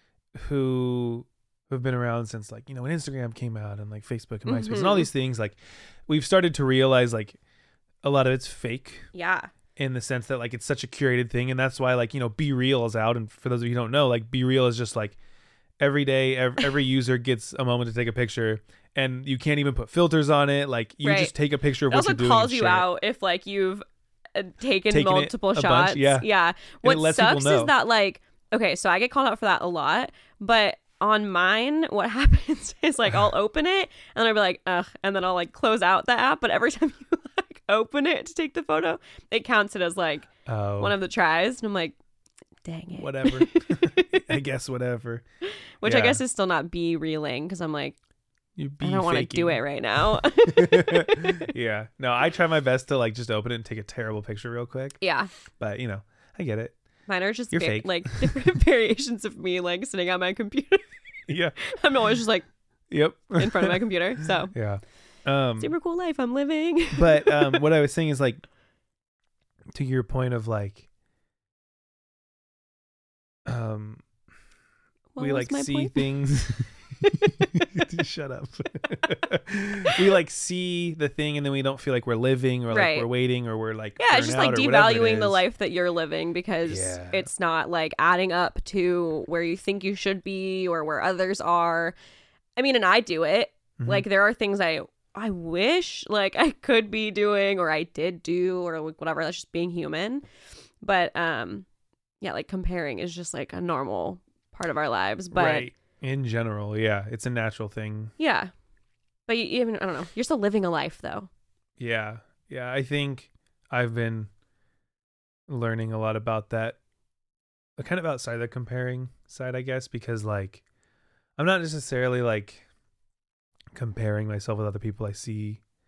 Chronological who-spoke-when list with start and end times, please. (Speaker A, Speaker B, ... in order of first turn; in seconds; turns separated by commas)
Speaker A: 0.3-7.4, Speaker B: 4.5-5.1, Speaker A: 8.0-9.1, Speaker B: 9.1-9.5, Speaker A: 9.8-15.2, Speaker A: 15.8-22.9, Speaker B: 21.0-21.3, Speaker B: 21.9-23.8, Speaker B: 24.3-40.3, Speaker A: 24.9-26.3, Speaker A: 26.8-27.7, Speaker A: 40.5-41.0, Speaker B: 40.8-42.0, Speaker B: 42.6-44.0, Speaker A: 43.0-45.2, Speaker B: 45.4-48.0, Speaker A: 45.8-46.2, Speaker A: 48.6-49.6, Speaker B: 48.8-51.5, Speaker A: 50.2-55.0, Speaker B: 55.0-55.3, Speaker A: 55.6-56.8, Speaker B: 57.1-60.9, Speaker A: 57.5-58.4, Speaker A: 61.3-61.6, Speaker B: 61.6-62.5, Speaker A: 62.9-65.7, Speaker B: 63.4-64.5, Speaker B: 65.6-67.6, Speaker A: 66.9-68.4, Speaker A: 69.7-70.9, Speaker A: 73.5-74.0, Speaker B: 75.1-76.0, Speaker A: 75.2-85.4, Speaker B: 82.7-83.1, Speaker B: 84.0-91.9, Speaker A: 86.7-87.3, Speaker B: 92.6-100.2, Speaker A: 93.8-94.0, Speaker B: 100.8-101.7, Speaker B: 102.2-105.7, Speaker A: 105.3-108.1, Speaker B: 108.2-108.5, Speaker B: 109.3-111.3, Speaker A: 111.8-114.3, Speaker A: 115.5-116.8, Speaker A: 117.8-120.6, Speaker A: 121.4-122.6, Speaker A: 123.7-125.6